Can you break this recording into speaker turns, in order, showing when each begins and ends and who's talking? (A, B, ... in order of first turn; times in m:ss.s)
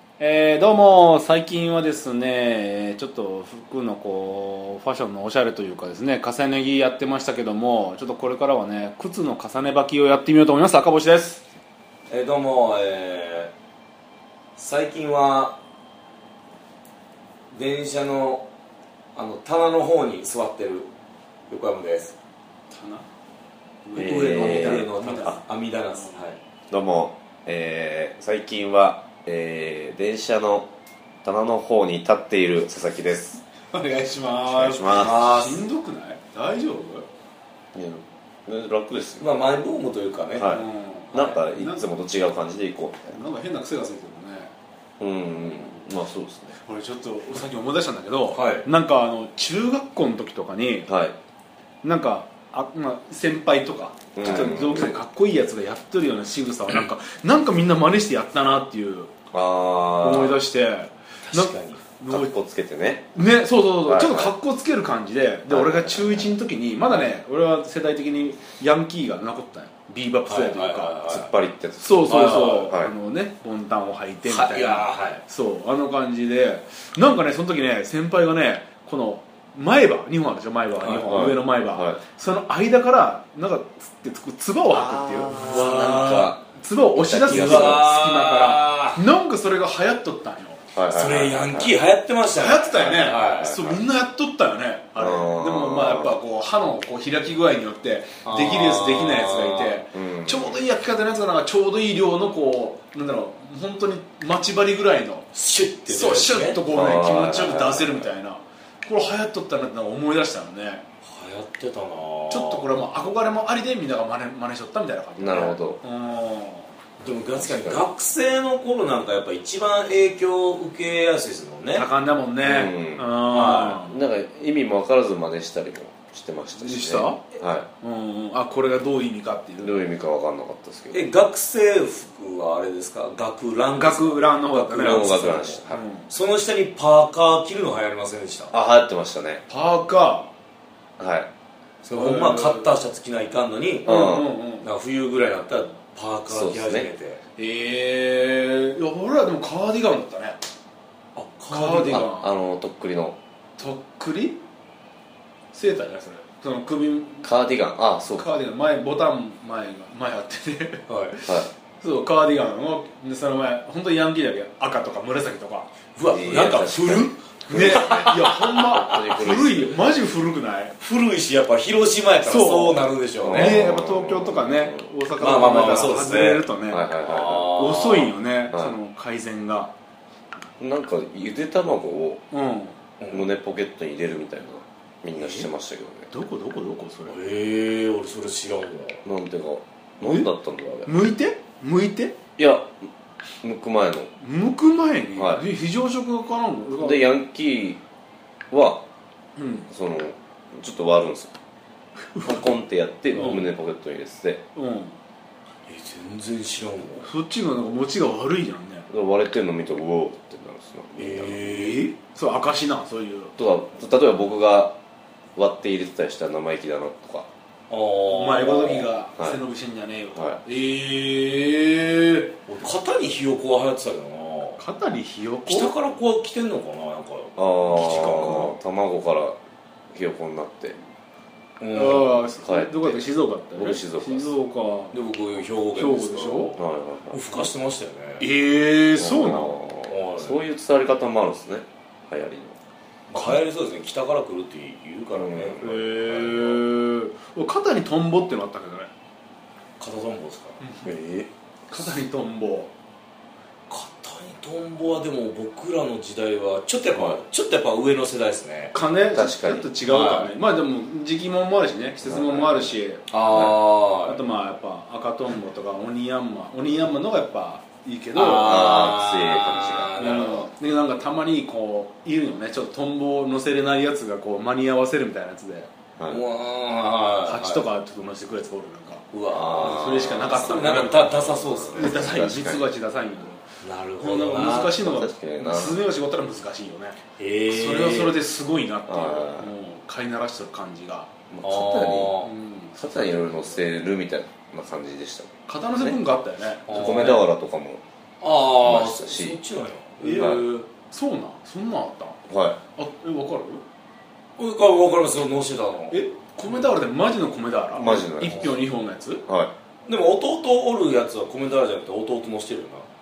0:00.2-0:11.4 A
0:12.1-0:13.5 B
0:14.6-0:15.6 B
0:17.5-0:18.4 B
0:19.1-0:20.9 B
0:21.5-0:22.1 B
0:22.7-0:23.1 A
0:23.8-0:26.2 A
0:23.9-0:26.4 B
0:24.0-0:25.3 C
0:26.7-0:30.7 C
0:31.2-0:33.4 C
0:33.6-0:37.0 A
0:34.5-0:35.1 C
0:34.9-0:35.6 B
0:37.7-0:39.3 C
0:39.2-0:40.6 B
0:40.4-0:43.2 C
0:40.4-0:41.8 A
0:43.1-0:44.5 A
0:45.0-0:46.6 C
0:46.6-0:50.9 A
0:48.3-0:48.7 B
0:50.9-0:51.2 C
0:51.8-0:59.1 A
0:54.1-0:55.0 C
0:59.3-1:00.4 C
1:00.0-1:02.3 A
1:01.3-1:01.8 B
1:02.1-1:03.1 C
1:03.1-1:11.0 A
1:03.8-1:04.3 C
1:05.5-1:06.4 C
1:10.3-1:11.3 B
1:11.1-1:12.9 C
1:11.8-1:30.6 A
1:12.1-1:12.7 B
1:14.2-1:15.2 B
1:20.8-1:21.1 B
1:21.0-1:22.0 C
1:24.7-1:26.4 C
1:25.3-1:26.3 B
1:26.9-1:27.8 C
1:27.2-1:29.0 B
1:30.7-1:31.7 C
1:30.9-1:33.6 B
1:32.3-1:45.3 A
1:33.0-1:33.8 C
1:35.0-1:36.2 C
1:38.2-1:39.8 B
1:39.9-1:40.6 C
1:45.3-1:46.6 B
1:45.8-1:50.8 A
1:46.7-1:48.1 C
1:51.0-1:52.7 B
1:52.3-1:56.7 A
1:55.2-1:55.8 C
1:57.0-2:01.9 B
1:57.4-1:57.9 C
2:01.7-2:04.0 A
2:02.4-2:07.7 C
2:03.3-2:03.8 B
2:06.6-2:07.2 A
2:07.8-2:09.8 A
2:09.6-2:11.1 C
2:10.9-2:18.5 B
2:13.7-2:16.1 A
2:14.8-2:15.8 C
2:18.5-2:19.4 C
2:19.5-2:20.3 A
2:21.0-2:21.3 C
2:21.8-2:23.9 B
2:21.9-2:22.7 A
2:23.8-2:24.3 C
2:23.8-2:24.7 A
2:24.6-2:27.2 B
2:26.3-2:26.9 C
2:27.4-2:30.4 A
2:31.2-2:32.0 B
2:31.5-2:32.3 A
2:31.5-2:33.2 C
2:33.6-2:34.4 A
2:35.5-2:37.3 A
2:37.2-2:38.3 C
2:38.1-2:45.7 A
2:40.9-2:41.2 B
2:46.0-2:49.0 B
2:46.0-2:49.8 C
2:47.5-2:50.8 A
2:50.8-2:53.6 B
2:52.2-2:56.9 A
2:53.2-2:54.9 C
2:55.2-2:56.5 B
2:56.7-2:57.6 C
2:57.0-2:58.1 B
2:57.5-2:59.7 A
2:58.5-2:58.7 C
3:00.6-3:02.2 C
3:02.3-3:02.8 A
3:03.0-3:03.3 B
3:03.1-3:06.1 C
3:05.2-3:05.5 A
3:06.1-3:07.2 A
3:07.1-3:09.0 B
3:09.0-3:10.9 C
3:10.0-3:10.3 A
3:10.8-3:12.2 A
3:12.4-3:12.8 C
3:13.4-3:14.1 C
3:14.2-3:17.1 A
3:15.1-3:15.4 C
3:16.8-3:17.8 C
3:18.5-3:18.8 C
3:19.4-3:19.7 A
3:19.7-3:21.3 C
3:22.1-3:22.5 A
3:22.2-3:24.4 C
3:23.1-3:23.5 A
3:24.5-3:25.0 A
3:25.7-3:27.1 B
3:27.0-3:28.9 A
3:28.9-3:31.5 C
3:31.0-3:31.9 B
3:31.4-3:33.4 A
3:33.4-3:34.8 C
3:35.4-3:37.3 C
3:37.7-3:38.9 B
3:38.1-3:42.3 A
3:40.1-3:40.4 C
3:42.5-3:44.6 B
3:44.6-3:45.7 A
3:45.4-3:48.5 B
3:47.4-3:49.4 C
3:49.9-3:50.8 C
3:51.6-3:52.2 B
3:51.7-3:55.0 A
3:52.2-3:54.3 C
3:54.9-3:58.3 B
3:55.7-3:56.6 A
3:56.6-3:57.5 C
3:58.2-3:59.6 A
3:58.9-4:02.6 C
3:59.9-4:00.4 B
4:03.1-4:06.6 B
4:03.1-4:03.4 A
4:05.1-4:05.6 C
4:05.6-4:08.9 A
4:09.8-4:10.6 B
4:10.6-4:10.9 A
4:10.8-4:11.3 C
4:11.7-4:12.7 A
4:13.7-4:18.7 B
4:16.9-4:17.2 C
4:18.7-4:23.4 A
4:19.1-4:19.7 C
4:19.8-4:20.3 B
4:22.0-4:22.7 C
4:23.1-4:24.2 B
4:23.3-4:23.6 C
4:24.0-4:28.8 A
4:28.1-4:30.4 B
4:28.3-4:30.5 C
4:30.0-4:35.7 A
4:36.1-4:37.6 B
4:37.2-4:43.4 A
4:39.1-4:42.1 B
4:39.3-4:40.6 C
4:41.5-4:42.6 C
4:43.6-4:44.8 B
4:44.0-4:51.1 A
4:44.6-4:45.8 C
4:47.2-4:48.2 B
4:48.9-4:49.5 C
4:51.3-4:52.2 C
4:51.4-4:52.3 B
4:52.2-4:53.4 A
4:52.8-4:56.0 C
4:55.5-4:57.2 A
4:56.7-4:57.2 B
4:56.7-4:57.8 C
4:58.2-5:00.3 B
4:58.6-4:59.4 C
5:00.0-5:02.2 A
5:00.0-5:00.4 C
5:02.3-5:02.6 C
5:02.8-5:03.6 A
5:04.4-5:06.0 B
5:05.9-5:09.2 A
5:07.7-5:08.6 C
5:08.2-5:08.5 B
5:09.2-5:09.5 C
5:09.9-5:12.8 B